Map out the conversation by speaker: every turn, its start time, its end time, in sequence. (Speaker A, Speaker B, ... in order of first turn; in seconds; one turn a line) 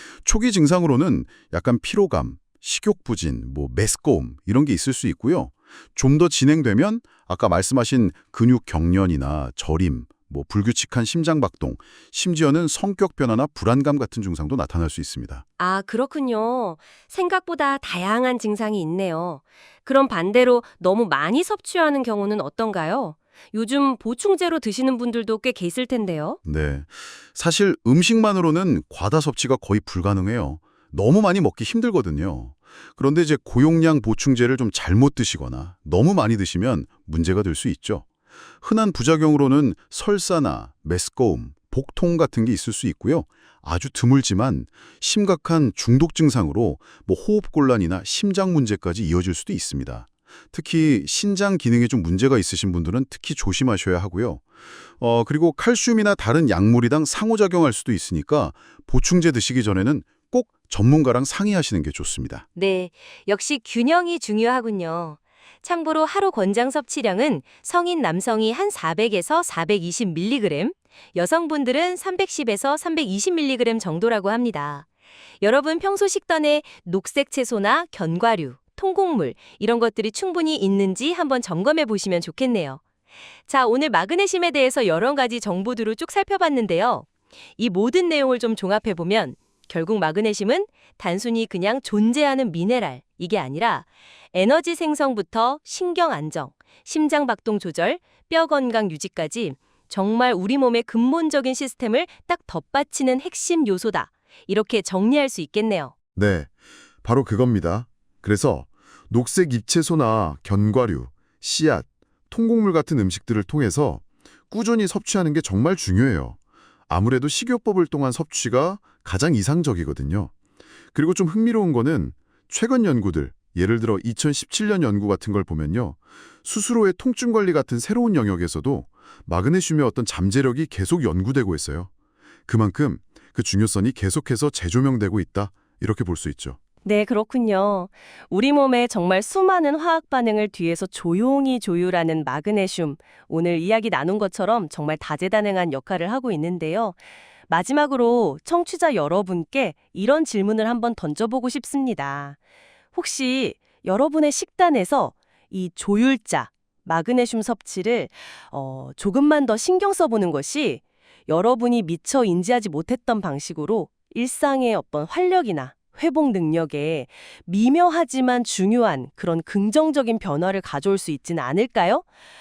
Speaker A: 0.2-15.4
Speaker B: 15.6-26.4
Speaker A: 26.4-38.0
Speaker A: 38.6-54.4
Speaker A: 55.0-62.4
Speaker C: 62.5-74.8
Speaker C: 75.4-82.8
Speaker B: 82.1-82.8
Speaker C: 83.5-87.0
Speaker B: 83.7-85.8
Speaker B: 87.6-88.1
Speaker C: 88.0-90.1
Speaker B: 89.0-90.7
Speaker C: 90.8-104.9
Speaker B: 91.8-93.8
Speaker B: 95.6-96.5
Speaker B: 97.4-98.0
Speaker B: 99.0-99.6
Speaker B: 100.3-104.1
Speaker B: 104.8-105.9
Speaker A: 106.1-106.5
Speaker A: 107.0-116.4
Speaker A: 116.9-120.3
Speaker A: 120.9-131.9
Speaker A: 132.5-136.6
Speaker B: 136.8-152.4
Speaker B: 152.9-172.1